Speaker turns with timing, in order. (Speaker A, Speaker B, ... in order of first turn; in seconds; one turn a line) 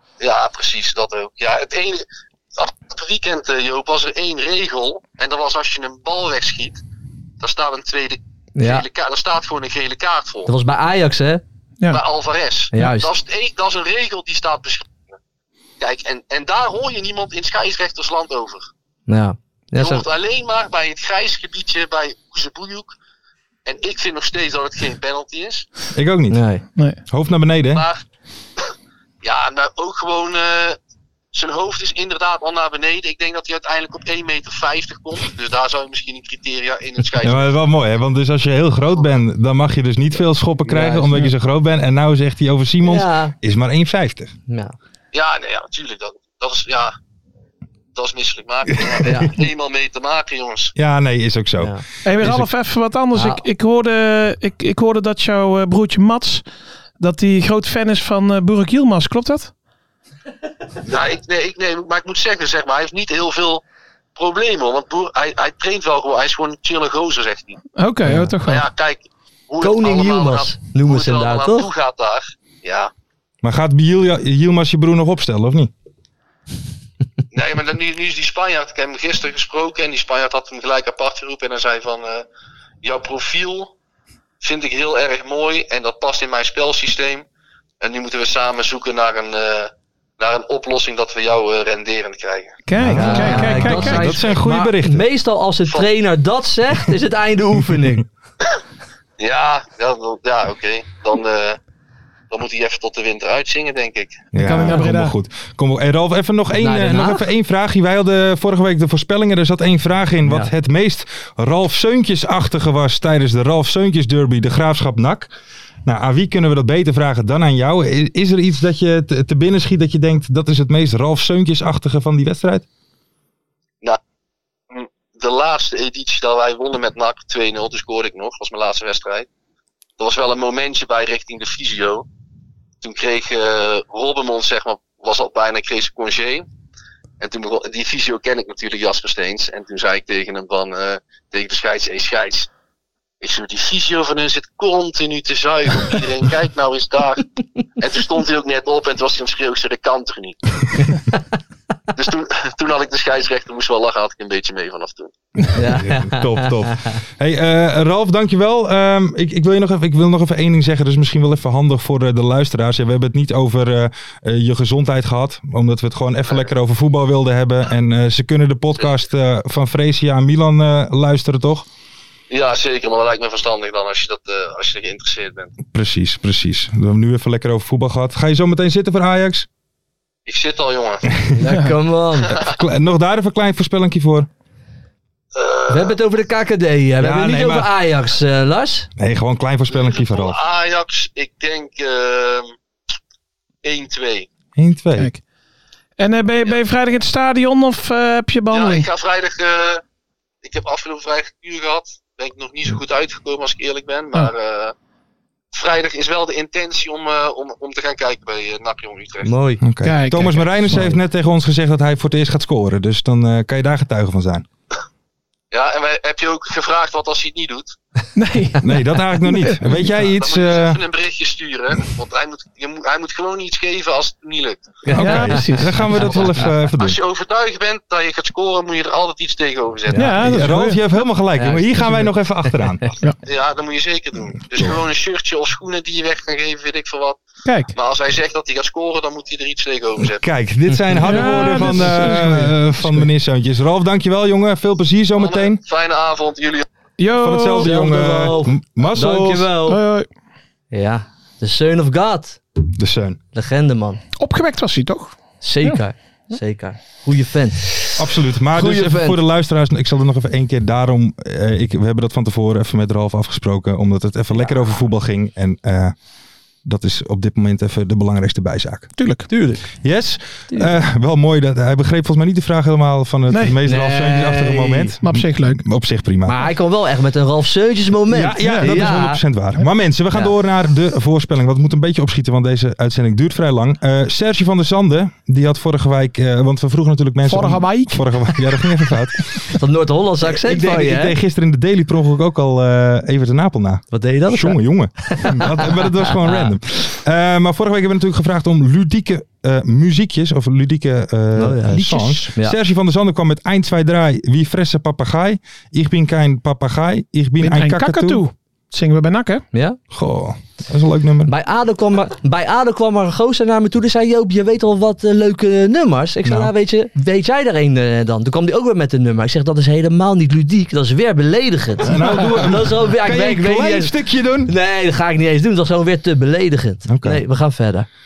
Speaker A: 0.2-2.0
Speaker A: 2.6-6.8
Speaker A: 7.4-10.5
Speaker B: 8.6-8.8
Speaker B: 10.4-11.4
Speaker A: 11.9-15.2
Speaker B: 12.7-13.1
Speaker A: 15.8-18.7
Speaker B: 19.1-20.0
Speaker A: 19.8-22.9
Speaker A: 23.6-25.7
Speaker C: 25.9-26.4
Speaker B: 26.3-26.6
Speaker C: 27.1-27.8
Speaker A: 27.7-28.0
Speaker A: 29.2-30.8
Speaker A: 31.3-37.5
Speaker C: 37.2-44.3
Speaker B: 40.7-41.2
Speaker B: 42.8-43.3
Speaker B: 44.5-44.7
Speaker A: 45.1-46.9
Speaker A: 47.9-50.7
Speaker C: 48.8-49.3
Speaker B: 49.0-49.4
Speaker C: 50.8-52.5
Speaker D: 52.0-56.4
Speaker B: 53.1-53.4
Speaker D: 57.0-59.5
Speaker A: 60.9-63.6
Speaker A: 64.2-67.6
Speaker D: 67.8-68.6
Speaker A: 68.4-72.9
Speaker B: 69.6-71.7
Speaker C: 73.4-75.7
Speaker A: 77.3-82.2
Speaker A: 82.8-83.7
Speaker A: 84.4-87.2
Speaker A: 87.8-92.6
Speaker D: 92.7-94.2
Speaker C: 92.8-95.0
Speaker B: 92.9-98.0
Speaker A: 99.2-101.6
Speaker A: 102.3-104.2
Speaker C: 104.3-115.3
Speaker D: 104.3-105.1
Speaker B: 106.6-107.2
Speaker B: 110.2-110.5
Speaker C: 115.8-122.6
Speaker A: 124.7-129.3
Speaker A: 130.0-132.0
Speaker A: 132.8-136.4
Speaker A: 137.2-142.5
Speaker A: 143.2-147.2
Speaker A: 147.8-150.4
Speaker A: 151.9-155.1
Speaker B: 155.5-156.9
Speaker C: 155.6-171.7
Speaker A: 172.3-175.5
Speaker C: 175.7-179.5
Speaker A: 180.2-181.0
Speaker B: 181.3-182.4
Speaker C: 182.3-184.3
Speaker A: 185.3-185.9
Speaker B: 185.7-188.9
Speaker C: 187.0-187.7
Speaker C: 189.0-190.4
Speaker A: 189.7-192.5
Speaker A: 193.6-194.3
Speaker C: 194.6-195.1
Speaker D: 196.0-198.9
Speaker A: 198.5-199.8
Speaker A: 200.4-204.7
Speaker A: 205.5-209.3
Speaker B: 209.2-209.6
Speaker C: 209.6-214.4
Speaker D: 209.8-210.9
Speaker A: 215.5-217.8
Speaker D: 218.2-218.6
Speaker C: 218.6-220.8
Speaker D: 219.2-219.7
Speaker A: 220.1-224.8
Speaker B: 224.8-226.4
Speaker C: 224.9-227.0
Speaker D: 224.9-225.9
Speaker A: 226.7-230.1
Speaker B: 229.9-230.2
Speaker D: 229.9-230.8
Speaker C: 230.1-232.9
Speaker B: 231.4-232.8
Speaker A: 233.2-237.2
Speaker D: 237.4-237.7
Speaker A: 237.7-240.2
Speaker C: 240.0-245.6
Speaker D: 241.0-243.1
Speaker A: 245.2-246.7
Speaker D: 247.0-247.7
Speaker C: 247.2-249.5
Speaker B: 247.6-249.8
Speaker D: 249.7-250.1
Speaker B: 250.7-252.4
Speaker C: 252.7-253.2
Speaker B: 253.3-254.0
Speaker D: 254.2-255.8
Speaker B: 255.4-257.9
Speaker C: 258.0-265.9
Speaker B: 258.5-259.2
Speaker B: 264.3-264.8
Speaker C: 266.6-268.9
Speaker D: 269.0-269.3
Speaker B: 269.3-269.7
Speaker C: 269.8-276.5
Speaker D: 273.3-273.6
Speaker B: 273.6-275.0
Speaker D: 275.0-275.6
Speaker B: 276.2-279.2
Speaker C: 278.1-289.4
Speaker D: 278.4-278.9
Speaker D: 287.2-288.1
Speaker B: 289.5-291.1
Speaker C: 290.2-308.2
Speaker B: 293.9-296.5
Speaker B: 301.3-302.6
Speaker D: 307.4-309.4
Speaker B: 309.5-309.8
Speaker C: 309.9-311.3
Speaker B: 311.3-323.9
Speaker C: 316.2-316.5
Speaker C: 321.8-324.5
Speaker B: 324.4-327.9
Speaker C: 326.9-327.2